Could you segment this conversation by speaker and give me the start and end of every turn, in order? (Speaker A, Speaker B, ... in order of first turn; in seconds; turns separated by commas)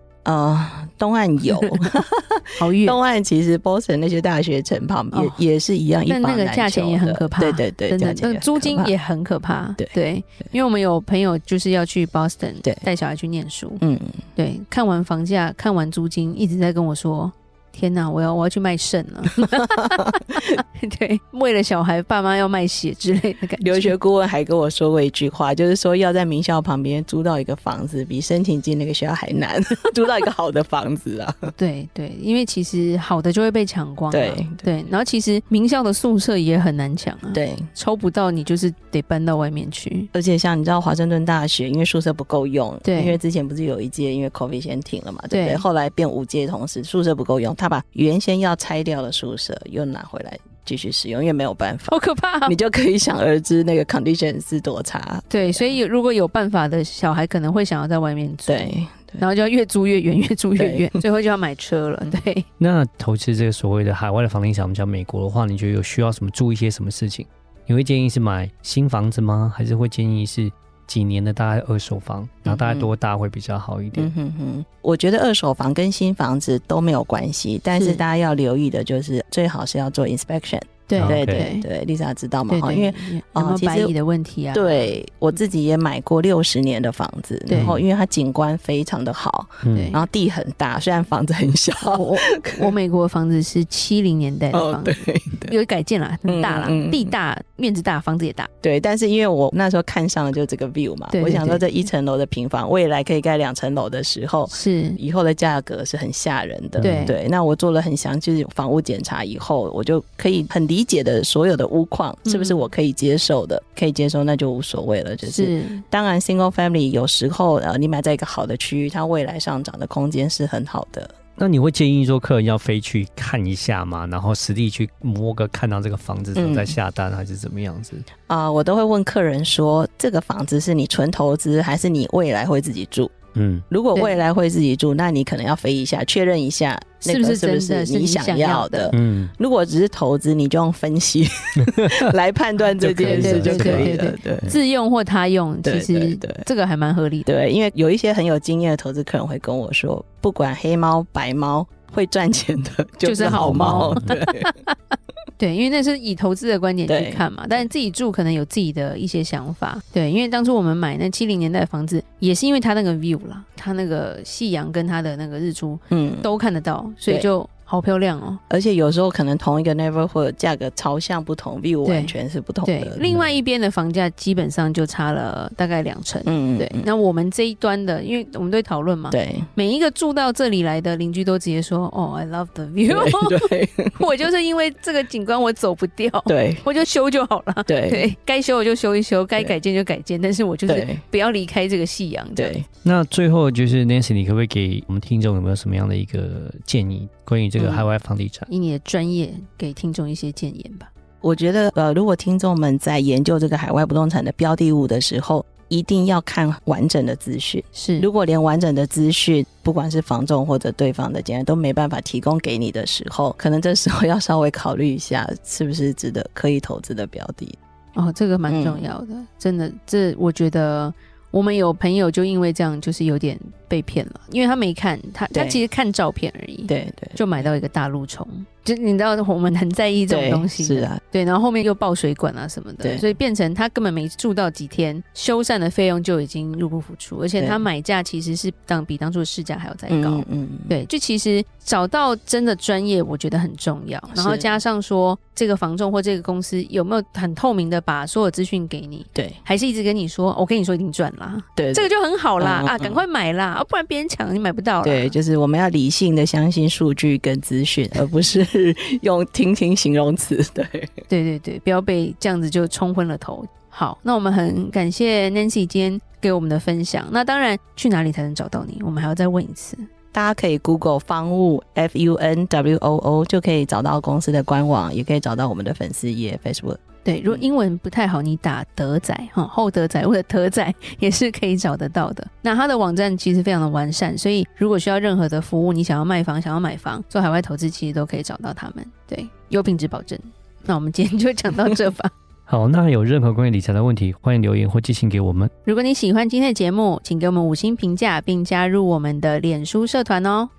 Speaker A: 0.2-8.9, Speaker B: 2.6-3.0, Speaker B: 5.1-5.4, Speaker B: 6.0-13.8, Speaker A: 13.8-14.2, Speaker B: 14.3-23.9, Speaker A: 19.9-20.4, Speaker A: 23.6-31.5, Speaker B: 31.5-40.1, Speaker A: 34.1-34.7, Speaker A: 37.3-37.7, Speaker A: 40.1-55.8, Speaker B: 42.8-43.2, Speaker B: 45.3-45.6, Speaker B: 51.9-52.5, Speaker B: 55.3-62.5, Speaker A: 58.5-59.2, Speaker A: 60.6-61.0, Speaker C: 62.6-74.1, Speaker A: 72.4-72.9, Speaker A: 73.9-83.9, Speaker B: 77.7-78.0, Speaker B: 80.9-81.7, Speaker C: 81.0-81.4, Speaker B: 82.5-84.9, Speaker A: 84.5-92.7, Speaker B: 87.5-87.8, Speaker C: 87.5-87.8, Speaker C: 89.6-89.9, Speaker B: 89.7-90.0, Speaker B: 91.9-98.5, Speaker A: 94.5-95.5, Speaker A: 96.2-97.1, Speaker A: 98.6-121.1, Speaker B: 101.1-101.7, Speaker B: 104.5-105.0, Speaker B: 106.8-107.2, Speaker C: 106.8-107.1, Speaker B: 112.2-112.7, Speaker B: 115.2-115.8, Speaker C: 121.4-128.1, Speaker A: 126.3-126.8, Speaker A: 128.3-133.2, Speaker C: 133.3-133.6, Speaker A: 133.7-144.5, Speaker B: 137.0-138.9, Speaker C: 138.9-139.3, Speaker C: 142.8-144.5, Speaker B: 143.0-147.3, Speaker A: 145.6-146.5, Speaker A: 147.2-154.5, Speaker B: 153.0-154.7, Speaker C: 153.2-154.0, Speaker B: 155.4-168.4, Speaker A: 156.9-157.2, Speaker A: 165.9-166.3, Speaker A: 168.5-173.0, Speaker B: 171.8-192.6, Speaker C: 173.0-173.3, Speaker A: 176.2-176.9, Speaker A: 179.1-179.5, Speaker A: 182.9-184.1, Speaker A: 186.3-186.6, Speaker A: 187.7-188.1, Speaker A: 190.7-191.0, Speaker A: 192.3-192.7, Speaker C: 192.8-198.5, Speaker A: 197.6-197.8, Speaker B: 198.5-200.9, Speaker A: 201.2-217.6, Speaker B: 207.7-208.1, Speaker B: 217.9-255.1, Speaker A: 218.5-218.8, Speaker A: 225.3-225.6, Speaker A: 226.7-227.5, Speaker A: 230.1-231.0, Speaker A: 237.4-237.6, Speaker A: 239.9-240.7, Speaker A: 244.1-244.5, Speaker A: 249.1-249.4, Speaker A: 251.6-253.0, Speaker A: 254.8-260.9, Speaker B: 261.1-269.8, Speaker A: 270.1-277.4, Speaker B: 277.0-292.1, Speaker C: 292.5-295.5, Speaker B: 295.6-300.5